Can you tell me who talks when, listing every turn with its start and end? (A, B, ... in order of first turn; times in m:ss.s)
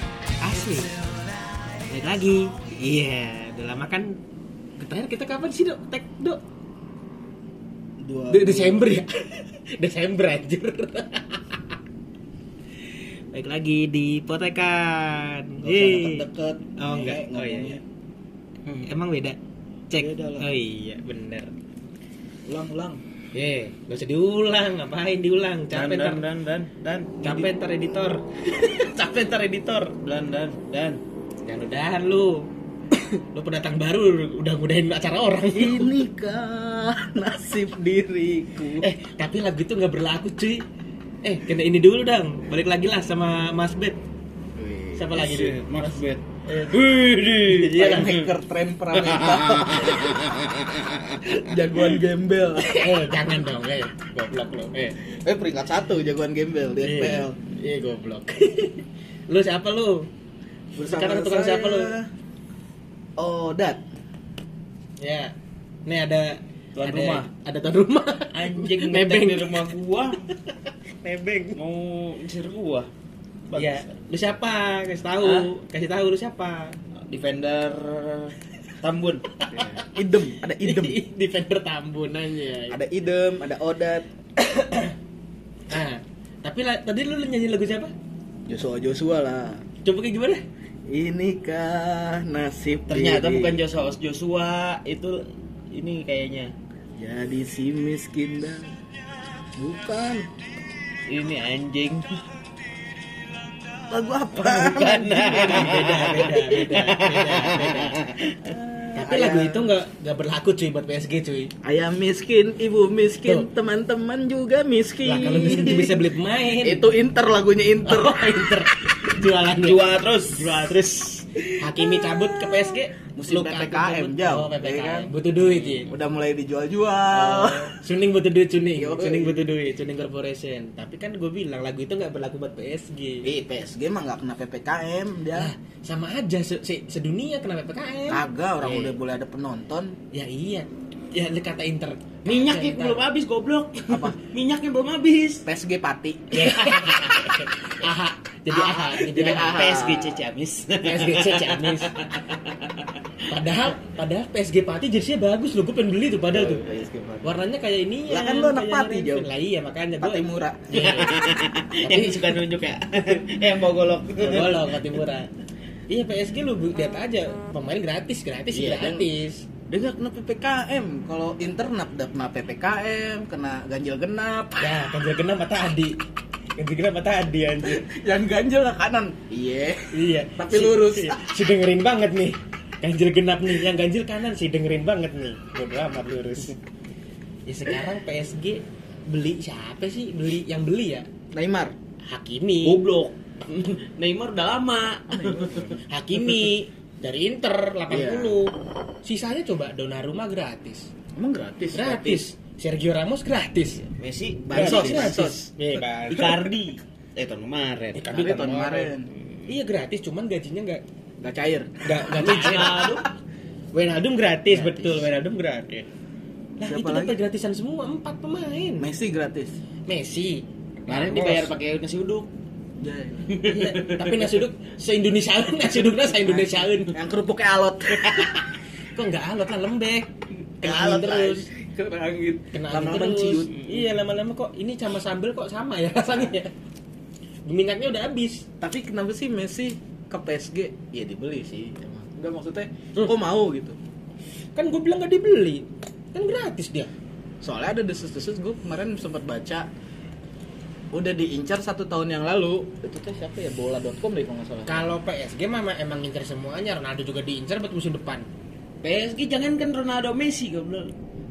0:00.4-0:01.0 A
0:01.9-0:04.2 A
0:04.8-0:06.4 A
0:08.0-0:09.0 B
0:08.3-0:11.7 A
0:13.3-0:17.8 A
0:15.6-0:17.8 B
0:18.8-0:19.4 A
0:19.9-0:21.5 A
0:20.0-0:20.5 C
0:22.5-0:22.9 B
0:22.5-0:23.0 C
0:23.3-0:26.2 A
0:25.7-0:27.5 C
0:27.2-0:30.0 A
0:30.0-0:31.0 C
0:31.5-0:32.5 A
0:33.3-0:35.9 A
0:35.5-0:38.9 B
0:38.8-0:40.7 A
0:41.2-0:44.0 A
0:44.6-0:45.2 B
0:45.0-0:46.8 A
0:45.1-0:48.3 C
0:47.5-0:48.1 A
0:47.7-0:50.3 B
0:48.9-0:51.3 C
0:51.2-0:52.8 B
0:52.6-0:55.0 A
0:55.1-0:57.4 B
0:56.8-1:00.1 A
1:00.8-1:02.1 B
1:00.8-1:01.9 A
1:03.2-1:03.8 B
1:05.0-1:05.3 A
1:05.9-1:09.7 A
1:06.8-1:07.3 C
1:08.3-1:10.2 C
1:10.4-1:11.6 A
1:11.6-1:12.9 C
1:13.5-1:16.8 A
1:13.5-1:13.8 C
1:15.2-1:15.5 C
1:17.0-1:19.4 C
1:19.4-1:19.8 A
1:19.6-1:21.0 B
1:20.6-1:22.8 A
1:22.7-1:24.1 B
1:24.4-1:25.0 A
1:25.7-1:27.9 A
1:28.5-1:29.6 B
1:29.8-1:30.4 A
1:30.9-1:33.6 B
1:32.9-1:36.5 C
1:37.0-1:38.7 B
1:39.6-1:40.3 B
1:41.1-1:42.2 C
1:43.8-1:45.2 B
1:44.4-1:48.8 C
1:44.5-1:48.0 A
1:48.9-1:51.5 A
1:49.0-1:49.7 B
1:51.6-1:56.1 B
1:55.0-1:56.9 A
1:56.6-1:58.5 B
1:57.8-1:59.8 A
1:59.6-2:01.5 C
2:01.6-2:05.9 A
2:02.4-2:05.1 B
2:05.5-2:05.8 C
2:05.9-2:07.7 B
2:07.1-2:13.3 A
2:08.8-2:09.5 B
2:13.2-2:15.5 B
2:15.4-2:18.9 A
2:18.1-2:20.0 B
2:20.1-2:23.0 A
2:22.2-2:25.5 C
2:23.9-2:24.2 B
2:25.4-2:26.6 B
2:26.3-2:29.6 A
2:26.6-2:27.4 C
2:28.5-2:30.2 B
2:29.1-2:32.9 C
2:30.8-2:31.9 A
2:33.3-2:36.6 A
2:36.3-2:37.3 B
2:37.2-2:41.2 A
2:38.1-2:39.3 B
2:40.0-2:41.0 B
2:40.7-2:44.8 C
2:41.8-2:42.3 A
2:44.2-2:45.3 A
2:45.9-2:49.5 A
2:48.5-2:49.1 B
2:49.7-2:54.8 B
2:54.6-2:56.0 A
2:56.6-2:57.9 A
2:57.6-3:01.3 B
2:59.9-3:06.6 A
3:07.5-3:11.1 A
3:11.3-3:11.8 B
3:12.1-3:12.8 A
3:12.6-3:15.7 C
3:15.1-3:15.8 B
3:15.9-3:18.5 A
3:17.9-3:18.4 B
3:19.0-3:20.9 A
3:21.2-3:22.2 B
3:21.7-3:23.8 A
3:23.8-3:25.2 C
3:24.4-3:26.3 B
3:24.5-3:26.4 A
3:26.1-3:29.5 C
3:28.0-3:28.8 A
3:28.0-3:29.1 B
3:29.5-3:30.8 A
3:31.2-3:33.1 B
3:31.8-3:32.8 A
3:32.1-3:33.1 C
3:33.7-3:35.8 A
3:36.6-3:38.9 A
3:36.6-3:37.2 B
3:38.8-3:39.6 B
3:39.9-3:41.5 A
3:40.9-3:42.3 C
3:42.8-3:43.4 B
3:43.3-3:44.4 C
3:43.4-3:47.0 A
3:46.2-3:48.3 B
3:49.0-3:51.4 A
3:50.6-3:53.7 B
3:52.5-3:56.5 A
3:57.5-3:58.5 A
3:58.6-4:03.8 B
4:04.6-4:06.9 A
4:07.4-4:09.7 B
4:10.9-4:14.9 B
4:14.7-4:18.3 A
4:18.8-4:20.9 C